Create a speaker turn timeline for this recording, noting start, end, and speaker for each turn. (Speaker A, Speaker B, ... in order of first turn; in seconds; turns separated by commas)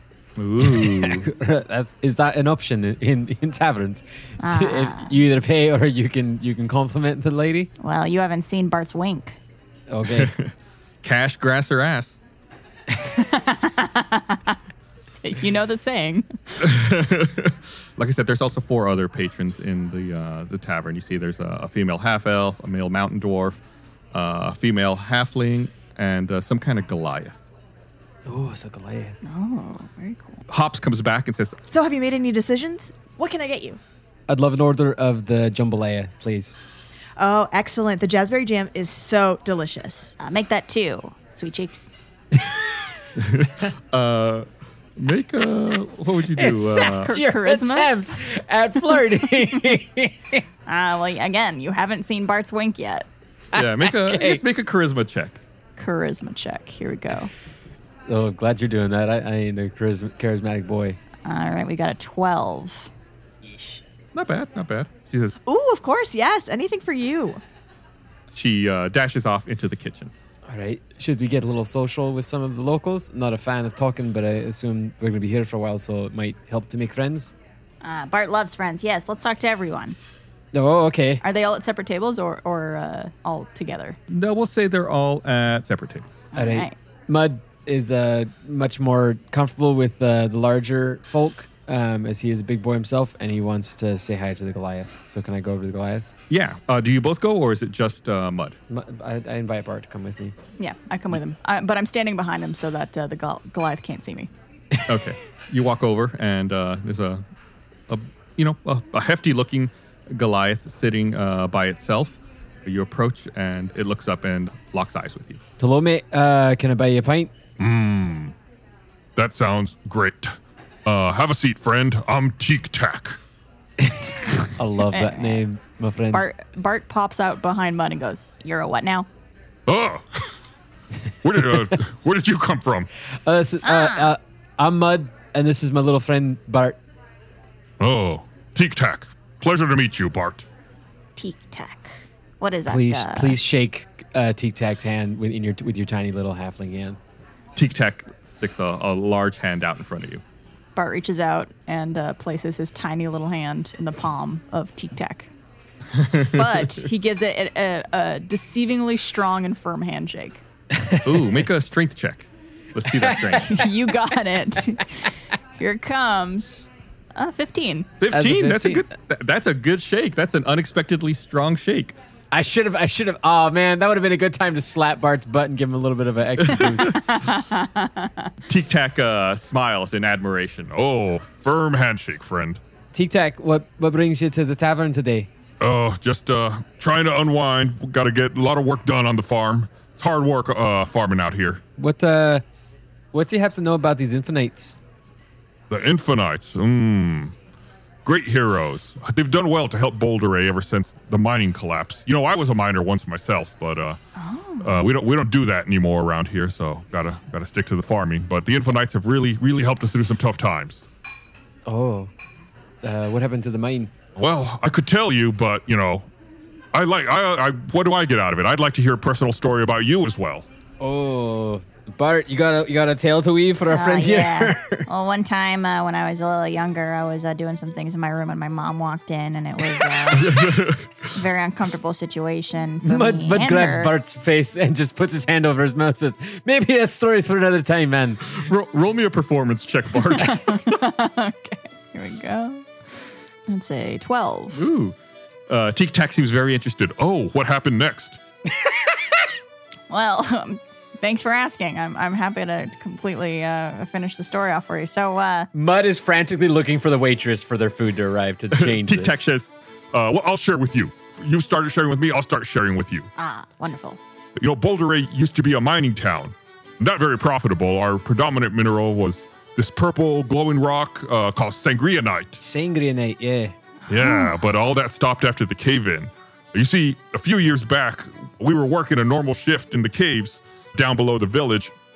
Speaker A: 0.4-1.3, Speaker B: 0.6-7.7, Speaker C: 4.4-5.1, Speaker C: 7.8-9.4, Speaker B: 9.9-10.3, Speaker A: 10.1-10.5, Speaker A: 11.0-12.2, Speaker C: 13.1-14.6, Speaker C: 15.2-16.3, Speaker A: 16.6-23.6, Speaker A: 24.1-27.4, Speaker B: 28.3-29.2, Speaker C: 29.2-30.4, Speaker A: 30.5-31.6, Speaker D: 31.7-33.8, Speaker B: 34.3-36.6, Speaker D: 37.2-40.1, Speaker C: 40.2-41.9, Speaker A: 43.2-47.1, Speaker B: 46.4-50.4, Speaker C: 46.8-47.9, Speaker C: 50.7-53.1, Speaker B: 53.5-54.4, Speaker A: 53.5-55.4, Speaker C: 55.8-57.3, Speaker B: 58.1-61.0, Speaker C: 61.2-62.9, Speaker A: 64.1-65.3, Speaker D: 65.5-67.4, Speaker A: 68.3-70.1, Speaker B: 70.5-77.3, Speaker C: 77.8-80.0, Speaker B: 80.5-81.2, Speaker C: 81.2-84.0, Speaker A: 84.1-86.1, Speaker C: 86.3-86.8, Speaker B: 86.3-96.1, Speaker A: 96.3-98.6, Speaker B: 98.7-100.3, Speaker C: 100.6-104.3, Speaker A: 104.9-107.2, Speaker A: 107.9-115.4, Speaker B: 115.6-117.3, Speaker E: 117.6-118.3, Speaker E: 119.2-123.2, Speaker B: 123.8-126.2, Speaker C: 124.9-125.4, Speaker C: 126.1-129.1, Speaker E: 129.7-130.3, Speaker E: 131.2-132.9, Speaker B: 131.3-131.7, Speaker B: 133.2-136.8, Speaker C: 133.6-134.1, Speaker E: 137.8-140.5, Speaker C: 141.2-143.4, Speaker B: 142.7-147.0, Speaker A: 147.6-150.2, Speaker C: 150.8-155.3, Speaker A: 155.9-156.8, Speaker C: 156.3-160.4, Speaker B: 160.7-161.4, Speaker A: 161.1-163.6, Speaker B: 162.8-163.4, Speaker C: 163.4-167.9, Speaker A: 168.0-171.9, Speaker B: 168.1-168.9, Speaker B: 172.3-177.0, Speaker A: 176.5-176.8, Speaker C: 176.9-178.3, Speaker A: 178.5-180.7, Speaker E: 180.7-182.6, Speaker B: 182.9-185.3, Speaker E: 185.6-191.6, Speaker B: 191.8-192.4, Speaker B: 193.1-194.8, Speaker E: 195.7-197.3, Speaker E: 198.1-204.0, Speaker C: 204.2-204.8, Speaker E: 204.6-210.9, Speaker B: 211.7-212.1, Speaker B: 212.8-213.9, Speaker E: 214.2-216.1, Speaker E: 216.7-220.5, Speaker B: 220.8-224.9, Speaker C: 223.7-230.4, Speaker A: 230.2-230.7, Speaker C: 231.1-233.9, Speaker B: 232.8-238.2, Speaker A: 238.3-240.6, Speaker C: 240.2-244.6, Speaker A: 244.5-245.0, Speaker A: 245.5-246.8, Speaker E: 246.8-248.2, Speaker C: 249.9-255.5, Speaker B: 255.5-259.2, Speaker A: 258.5-259.5, Speaker E: 259.9-263.1, Speaker C: 263.2-264.0, Speaker E: 264.4-272.4, Speaker B: 272.4-273.5, Speaker E: 273.9-281.7, Speaker C: 273.9-274.3